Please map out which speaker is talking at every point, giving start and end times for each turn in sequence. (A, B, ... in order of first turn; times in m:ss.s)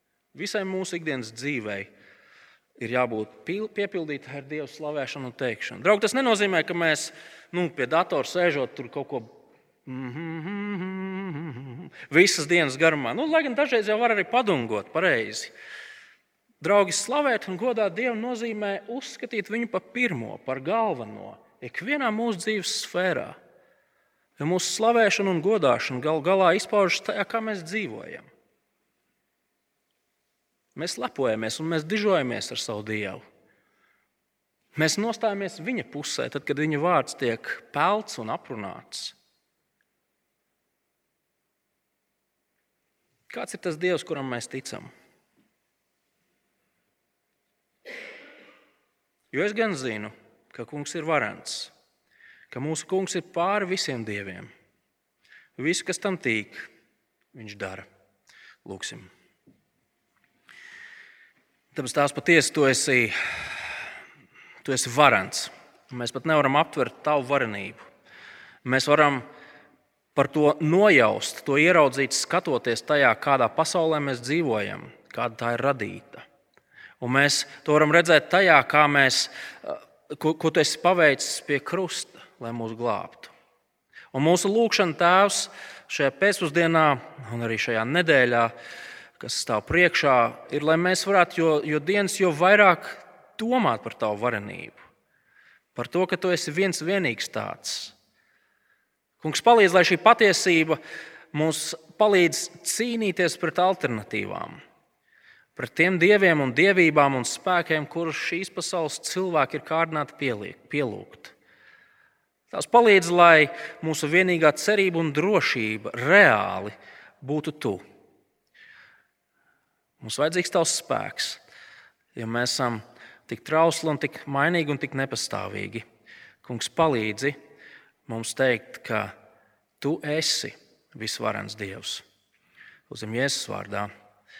0:00.3-0:01.9 A
0:02.8-0:15.5 A
0:16.6-0:23.4 A
0:24.4-0:28.3 A
0:30.7-0:33.2 A
0:34.7-0:39.2 A
0:43.3-0:44.9 A
0:49.3-0:51.7 A
0:52.5-0:54.5 A
0:55.6-0:56.7 A
0:57.3-0:57.9 A
0:58.6-0:59.1 A
1:01.7-1:03.7 A
1:04.6-1:07.8 A
1:08.6-1:09.2 A
1:10.1-1:16.2 A
1:17.0-1:23.3 A
1:24.1-1:28.5 A
1:29.2-1:34.8 A
1:35.7-1:37.9 A
1:39.2-1:40.8 A
1:41.3-1:44.6 A
1:45.6-1:51.3 A
1:52.5-1:57.8 A
2:00.0-2:01.4 A
2:02.1-2:05.8 A
2:06.4-2:07.4 A
2:08.1-2:09.1 A
2:09.8-2:12.0 A
2:12.9-2:13.9 A